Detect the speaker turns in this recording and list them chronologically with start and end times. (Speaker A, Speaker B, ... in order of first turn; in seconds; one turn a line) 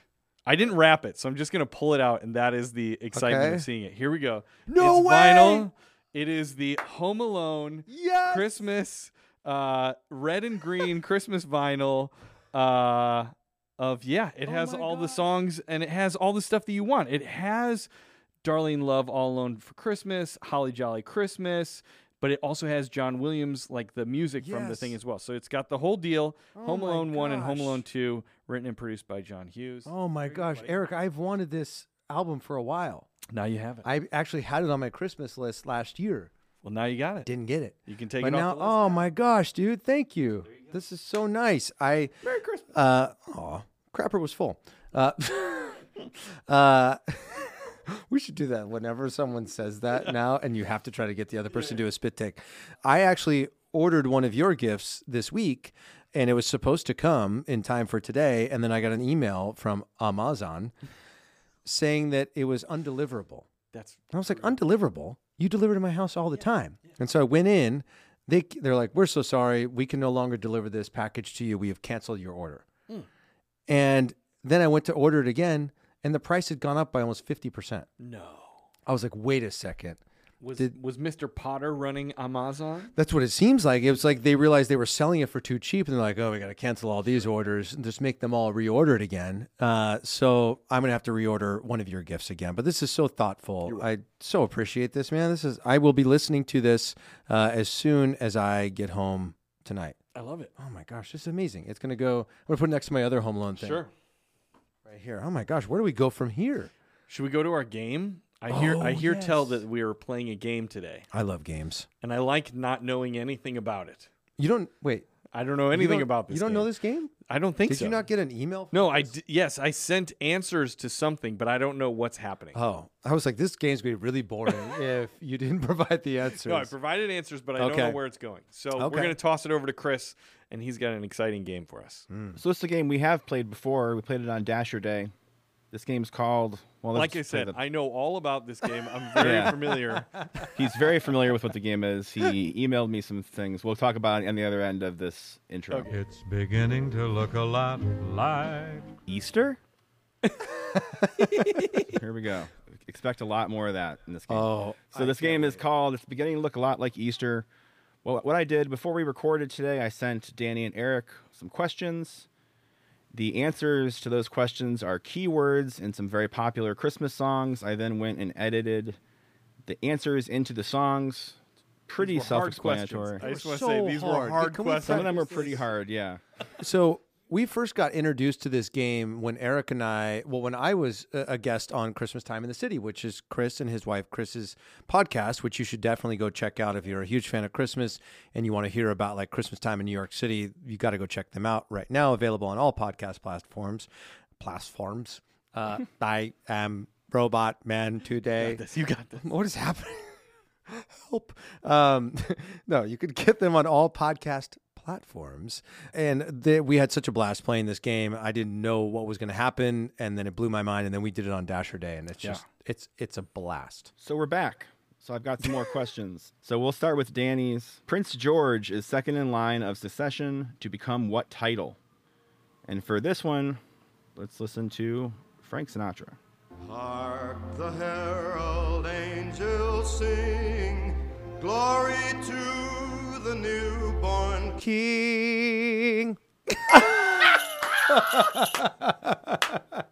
Speaker A: 0.5-17.9
Speaker B: 3.1-3.6
Speaker B: 4.7-5.7
Speaker B: 7.9-8.7
Speaker B: 14.4-15.2
Speaker A: 18.4-30.8
Speaker B: 24.4-25.0
Speaker B: 26.5-27.8
Speaker B: 29.8-33.1
Speaker A: 33.3-33.9
Speaker B: 33.8-36.3
Speaker A: 36.6-37.3
Speaker B: 37.2-42.1
Speaker A: 37.8-39.1
Speaker A: 42.2-42.7
Speaker B: 42.7-45.8
Speaker B: 46.5-60.7
Speaker B: 61.6-63.5
Speaker A: 63.7-64.6
Speaker B: 64.1-72.6
Speaker B: 73.7-77.9
Speaker A: 78.0-78.7
Speaker B: 78.9-80.0
Speaker A: 80.4-82.9
Speaker B: 83.0-100.0
Speaker A: 93.6-93.9
Speaker A: 100.1-100.5
Speaker B: 100.5-103.9
Speaker A: 103.6-103.9
Speaker B: 104.8-106.7
Speaker A: 107.1-111.0
Speaker B: 108.5-109.6
Speaker B: 111.1-111.9
Speaker A: 112.0-114.1
Speaker B: 114.4-115.0
Speaker A: 115.3-116.7
Speaker B: 115.7-117.1
Speaker A: 117.2-118.0
Speaker B: 117.7-119.1
Speaker A: 118.7-122.6
Speaker B: 122.5-126.7
Speaker A: 124.5-124.8
Speaker A: 126.3-132.1
Speaker B: 127.6-128.0
Speaker B: 128.7-129.2
Speaker B: 132.1-132.4
Speaker C: 132.4-135.1
Speaker C: 135.7-137.6
Speaker A: 136.9-140.3
Speaker C: 139.2-139.6
Speaker C: 140.5-145.9
Speaker A: 145.7-146.0
Speaker D: 145.9-148.9
Speaker C: 149.1-149.6
Speaker A: 150.2-151.9
Speaker C: 151.9-157.5
Speaker B: 154.3-155.6
Speaker C: 158.0-162.3
Speaker C: 163.1-169.0
Speaker C: 169.6-171.4
Speaker C: 171.9-173.2
Speaker A: 172.0-175.5
Speaker B: 173.2-175.6
Speaker C: 174.8-176.2
Speaker B: 176.6-193.9
Speaker B: 194.4-198.6
Speaker A: 198.4-199.3
Speaker B: 199.2-200.2
Speaker B: 200.7-213.9
Speaker C: 214.0-221.8
Speaker C: 222.7-223.6
Speaker C: 224.2-226.2
Speaker E: 226.6-234.6
Speaker B: 234.6-236.2
Speaker B: 237.9-239.6